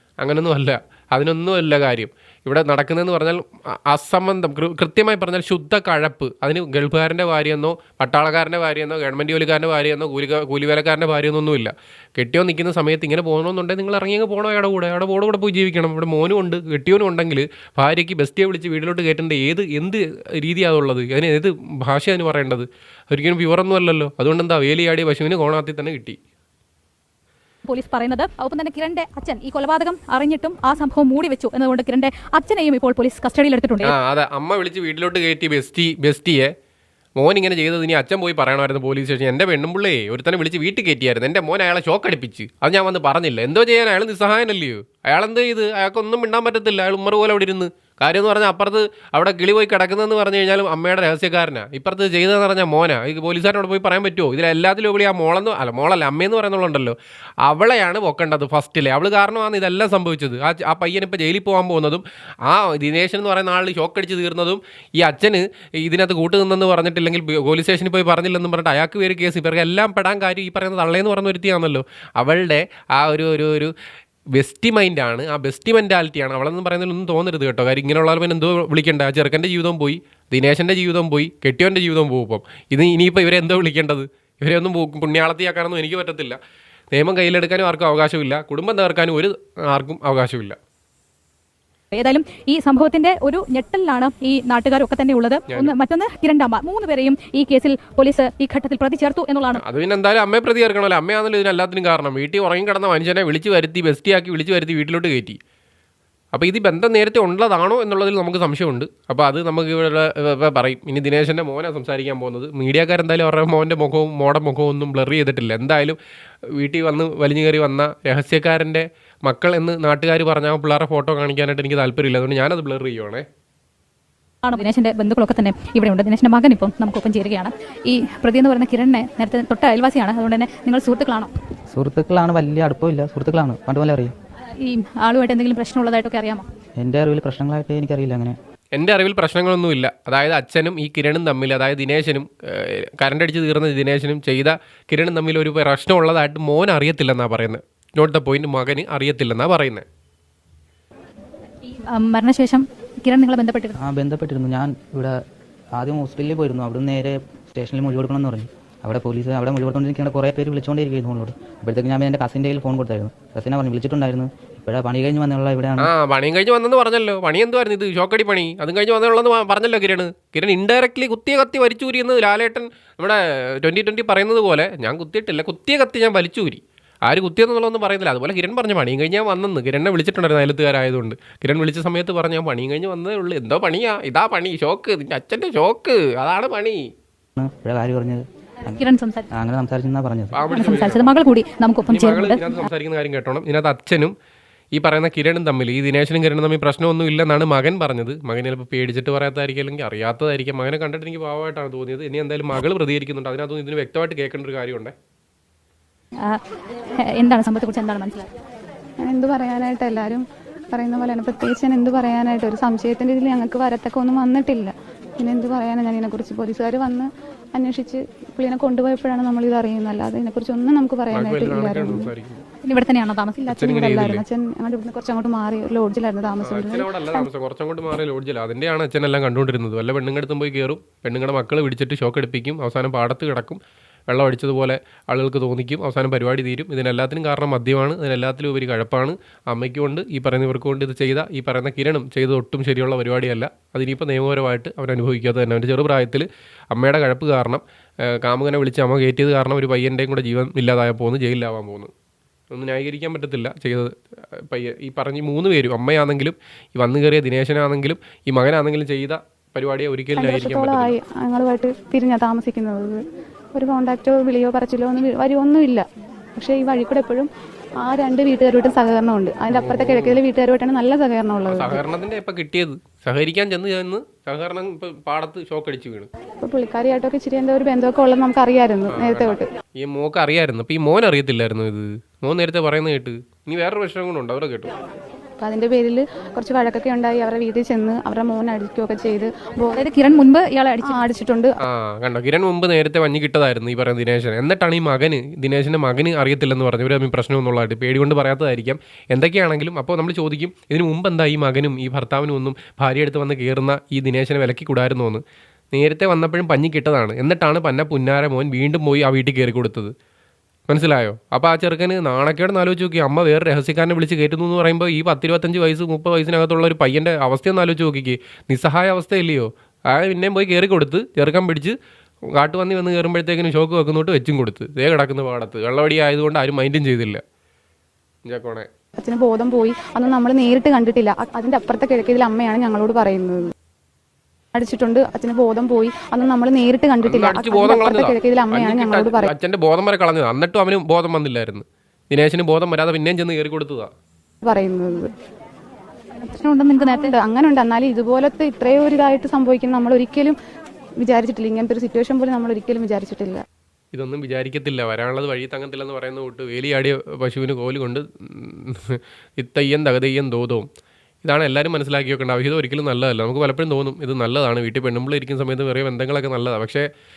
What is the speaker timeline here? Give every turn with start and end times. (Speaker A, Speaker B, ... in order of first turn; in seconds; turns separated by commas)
Speaker A: 0.2-26.2, Speaker B: 27.6-34.0, Speaker A: 33.8-36.5, Speaker A: 37.2-73.7, Speaker A: 74.3-86.4, Speaker A: 86.9-90.6, Speaker B: 91.9-99.6, Speaker A: 99.6-105.4, Speaker A: 106.3-116.0, Speaker A: 116.6-123.2, Speaker B: 124.4-131.3, Speaker C: 131.7-134.1, Speaker B: 134.6-136.4, Speaker C: 136.8-138.4, Speaker A: 138.7-149.8, Speaker B: 151.7-153.8, Speaker C: 153.8-155.2, Speaker C: 155.8-165.9, Speaker A: 165.8-186.8, Speaker C: 187.4-188.8, Speaker B: 188.7-189.3, Speaker C: 189.3-190.4, Speaker A: 190.3-191.1, Speaker B: 190.5-192.7, Speaker A: 191.9-194.1, Speaker A: 194.7-204.9, Speaker B: 207.0-208.3, Speaker D: 209.0-222.1, Speaker A: 221.1-222.4, Speaker B: 222.6-223.5, Speaker D: 223.4-227.3, Speaker A: 223.5-224.2, Speaker A: 226.4-251.9, Speaker A: 252.5-253.9, Speaker A: 254.5-261.0, Speaker D: 260.2-263.0, Speaker D: 263.5-265.9, Speaker D: 266.4-267.3, Speaker D: 267.8-271.8, Speaker A: 269.5-270.2, Speaker A: 271.5-276.1, Speaker D: 276.4-279.5, Speaker A: 278.9-284.7, Speaker D: 285.4-289.9, Speaker B: 289.7-291.1, Speaker D: 290.8-291.6, Speaker A: 291.6-309.9, Speaker A: 310.7-321.8, Speaker A: 322.4-327.2, Speaker A: 328.3-328.7, Speaker D: 329.0-333.5, Speaker D: 334.5-339.3, Speaker A: 337.0-343.9, Speaker D: 344.4-345.1, Speaker B: 346.2-347.2, Speaker D: 346.8-350.4, Speaker D: 351.0-353.4, Speaker A: 353.9-360.7, Speaker A: 361.2-366.9